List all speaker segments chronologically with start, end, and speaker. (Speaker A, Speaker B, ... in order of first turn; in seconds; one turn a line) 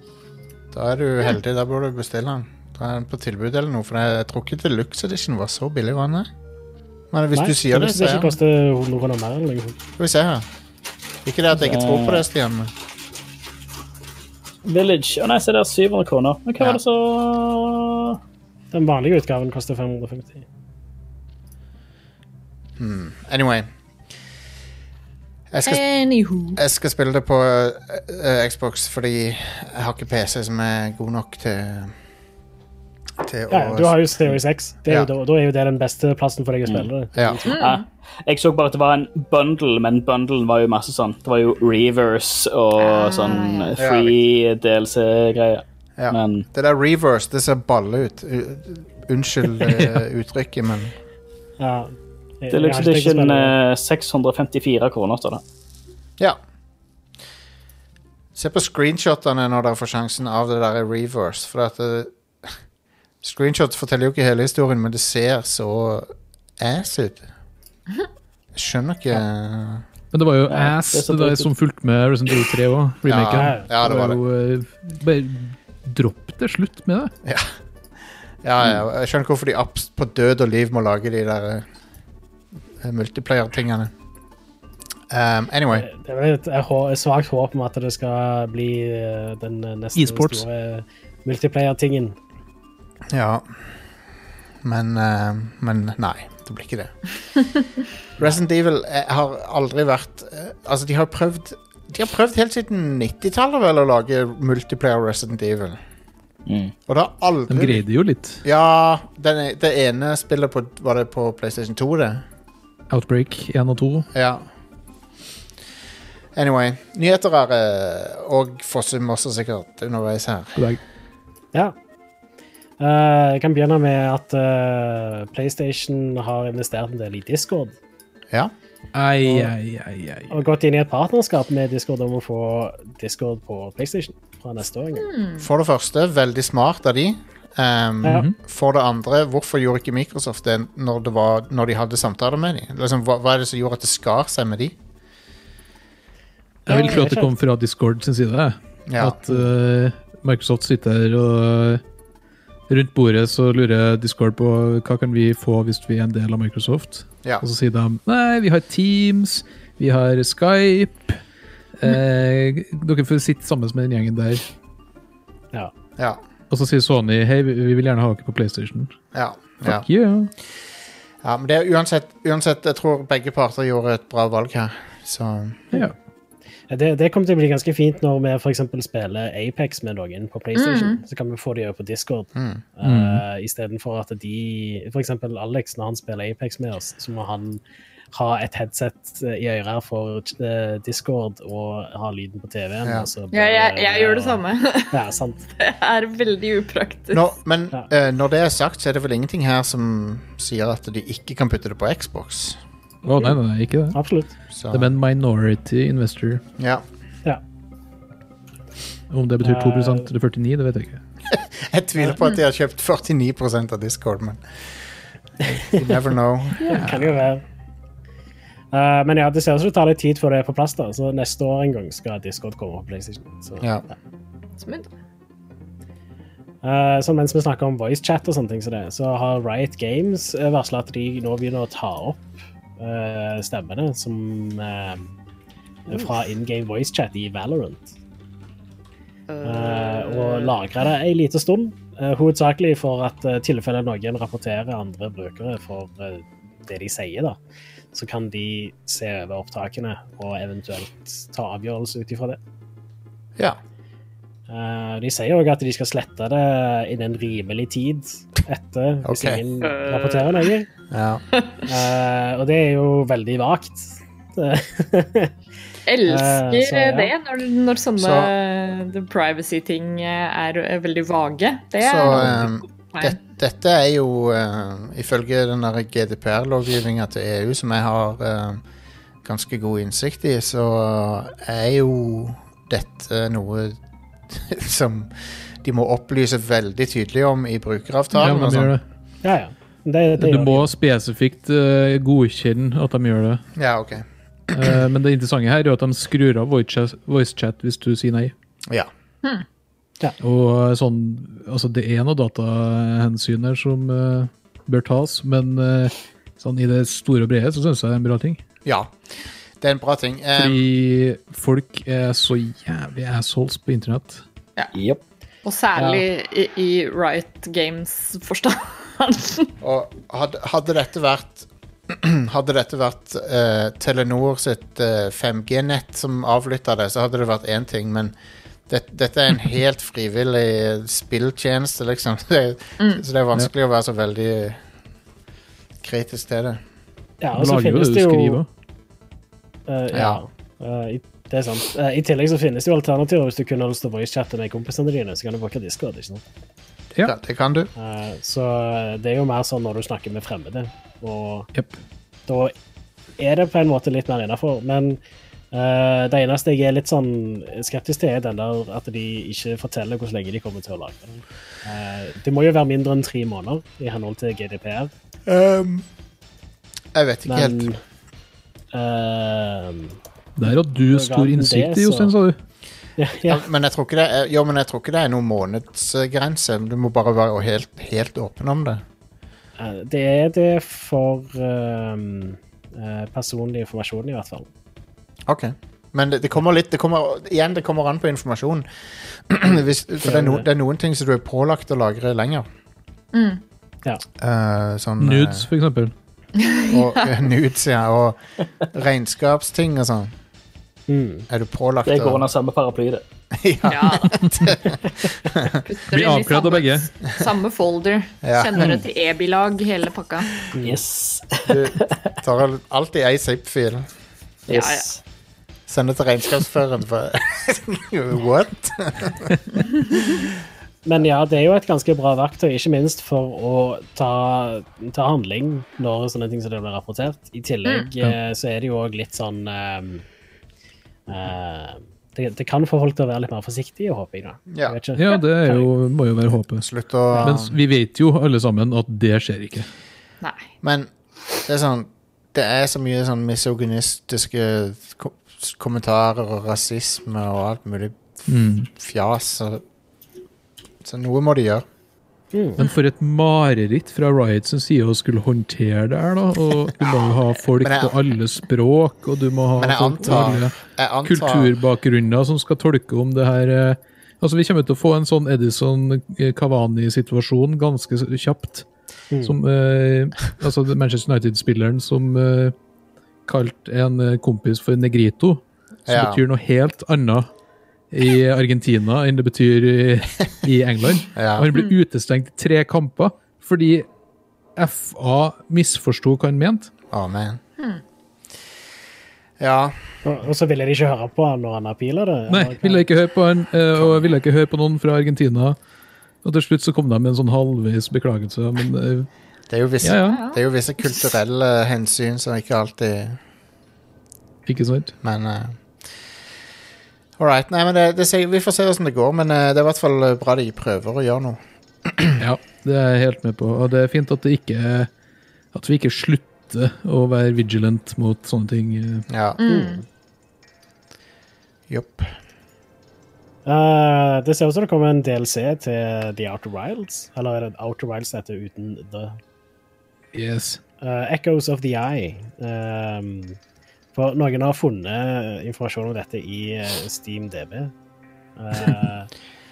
Speaker A: 0.7-6.3
Speaker A: 7.1-8.4
Speaker B: 7.3-9.8
Speaker A: 10.0-10.5
Speaker A: 11.2-12.7
Speaker C: 11.5-12.2
Speaker C: 14.7-18.2
Speaker B: 18.7-20.4
Speaker A: 22.8-23.7
Speaker A: 25.5-25.8
Speaker D: 25.7-26.6
Speaker A: 26.6-31.9
Speaker A: 33.2-34.0
Speaker B: 33.5-37.6
Speaker A: 37.1-37.4
Speaker D: 37.5-37.9
Speaker C: 37.5-46.5
Speaker D: 42.8-43.8
Speaker A: 43.8-44.1
Speaker A: 46.0-50.9
Speaker B: 51.6-53.5
Speaker C: 52.5-55.4
Speaker A: 58.4-62.5
Speaker A: 63.2-67.3
Speaker A: 68.5-69.8
Speaker E: 70.1-77.1
Speaker C: 70.5-71.5
Speaker A: 73.0-74.2
Speaker B: 73.3-73.7
Speaker A: 77.2-77.6
Speaker A: 78.4-81.7
Speaker A: 82.8-83.9
Speaker A: 85.1-85.9
Speaker B: 85.7-92.2
Speaker E: 90.0-90.5
Speaker A: 93.1-93.5
Speaker A: 94.6-96.9
Speaker A: 98.2-105.8
Speaker C: 106.5-106.7
Speaker A: 106.9-107.8
Speaker E: 107.5-108.4
Speaker A: 108.4-112.2
Speaker E: 112.9-114.1
Speaker A: 114.1-114.5
Speaker A: 116.3-120.7
Speaker B: 122.8-127.7
Speaker E: 128.9-130.3
Speaker B: 129.2-129.5
Speaker B: 130.3-135.1
Speaker D: 135.0-135.5
Speaker A: 135.4-144.8
Speaker E: 138.1-138.3
Speaker B: 146.7-147.3
Speaker E: 146.7-151.8
Speaker A: 148.9-149.2
Speaker E: 152.7-161.2
Speaker E: 161.8-164.5
Speaker E: 166.5-168.9
Speaker A: 169.1-169.9
Speaker E: 169.6-170.3
Speaker A: 171.2-175.7
Speaker B: 176.7-187.6
Speaker D: 180.6-181.0
Speaker A: 182.3-182.6
Speaker E: 182.8-183.2
Speaker B: 188.1-195.4
Speaker A: 192.8-193.1
Speaker D: 193.3-195.0
Speaker D: 195.6-197.3
Speaker A: 197.1-202.6
Speaker E: 203.0-204.0
Speaker B: 203.9-204.3
Speaker A: 204.5-204.9
Speaker E: 204.7-206.4
Speaker A: 206.6-206.8
Speaker E: 209.1-211.0
Speaker B: 209.4-210.1
Speaker A: 211.3-214.4
Speaker A: 215.4-216.8
Speaker B: 216.6-217.4
Speaker E: 216.6-217.2
Speaker B: 218.7-223.7
Speaker A: 223.6-223.9
Speaker D: 224.6-224.9
Speaker B: 226.6-232.3
Speaker B: 232.8-235.1
Speaker B: 235.9-237.9
Speaker D: 235.9-236.3
Speaker D: 239.3-240.6
Speaker B: 239.4-247.4
Speaker B: 247.9-252.4
Speaker B: 254.5-260.7
Speaker A: 259.1-259.4
Speaker D: 259.6-260.6
Speaker A: 260.9-261.2
Speaker D: 261.4-261.6
Speaker B: 261.7-265.3
Speaker D: 265.9-273.2
Speaker B: 266.1-267.1
Speaker A: 268.0-268.3
Speaker A: 271.8-278.6
Speaker B: 272.2-272.4
Speaker A: 279.2-283.8
Speaker A: 284.3-288.8
Speaker E: 288.1-288.8
Speaker B: 289.2-290.7
Speaker E: 290.2-293.4
Speaker A: 293.6-294.8
Speaker E: 294.5-298.3
Speaker E: 300.2-308.4
Speaker A: 308.6-308.9
Speaker A: 309.6-310.6
Speaker E: 310.4-314.2
Speaker C: 314.7-315.0
Speaker D: 315.4-319.5
Speaker A: 319.6-328.1
Speaker A: 328.7-334.6
Speaker D: 332.8-333.0
Speaker A: 335.8-336.6
Speaker B: 337.2-338.4
Speaker E: 337.4-338.5
Speaker B: 339.7-346.2
Speaker A: 339.9-340.2
Speaker A: 347.0-347.7
Speaker B: 347.8-351.5
Speaker B: 352.3-352.5
Speaker B: 353.2-355.0
Speaker B: 355.5-364.9
Speaker A: 365.3-365.9
Speaker A: 366.9-367.7
Speaker B: 367.3-367.8
Speaker B: 368.7-370.0
Speaker E: 370.4-372.4
Speaker B: 370.8-372.1
Speaker B: 373.0-373.4
Speaker A: 373.3-378.8
Speaker B: 379.6-384.5
Speaker A: 385.3-392.5
Speaker B: 390.0-390.5
Speaker D: 393.1-393.4
Speaker A: 394.2-395.5
Speaker E: 395.0-395.9
Speaker D: 396.4-397.1
Speaker A: 396.7-400.1
Speaker B: 400.9-401.3
Speaker A: 401.3-402.3
Speaker C: 401.9-403.0
Speaker A: 403.3-405.6
Speaker D: 403.6-404.6
Speaker D: 405.5-410.5
Speaker E: 405.9-406.9
Speaker A: 408.2-408.8
Speaker B: 410.5-410.8
Speaker C: 410.6-412.1
Speaker A: 411.4-413.9
Speaker D: 414.5-414.9
Speaker C: 414.5-415.0
Speaker A: 415.7-419.4
Speaker D: 419.6-420.0
Speaker A: 419.9-420.3
Speaker B: 420.9-430.1
Speaker B: 431.1-435.7
Speaker A: 434.5-434.8
Speaker E: 435.0-436.7
Speaker A: 436.6-437.6
Speaker E: 437.2-439.7
Speaker A: 440.6-440.9
Speaker A: 441.4-448.2
Speaker E: 448.3-448.7
Speaker A: 448.7-449.6
Speaker A: 450.8-451.6
Speaker B: 452.3-452.6
Speaker E: 452.6-468.7
Speaker A: 457.6-458.0
Speaker A: 459.6-461.6
Speaker E: 469.2-472.6
Speaker E: 473.3-477.3
Speaker A: 475.9-476.2
Speaker E: 477.9-483.9
Speaker A: 481.1-481.5
Speaker E: 484.6-486.7
Speaker A: 486.9-487.4
Speaker A: 489.4-489.8
Speaker B: 490.0-492.9
Speaker E: 492.3-495.6
Speaker A: 493.8-494.1
Speaker E: 496.2-499.1
Speaker A: 499.5-503.2
Speaker E: 499.8-500.2
Speaker D: 500.0-500.4
Speaker E: 504.5-504.9
Speaker A: 505.0-505.6
Speaker A: 507.2-512.2
Speaker E: 512.2-514.9
Speaker E: 515.5-519.1
Speaker A: 519.1-519.4
Speaker D: 519.4-519.8
Speaker B: 519.5-519.8
Speaker A: 521.7-522.1
Speaker B: 523.5-529.2
Speaker E: 530.1-530.6
Speaker B: 530.8-533.4
Speaker B: 533.9-537.7
Speaker B: 538.4-539.1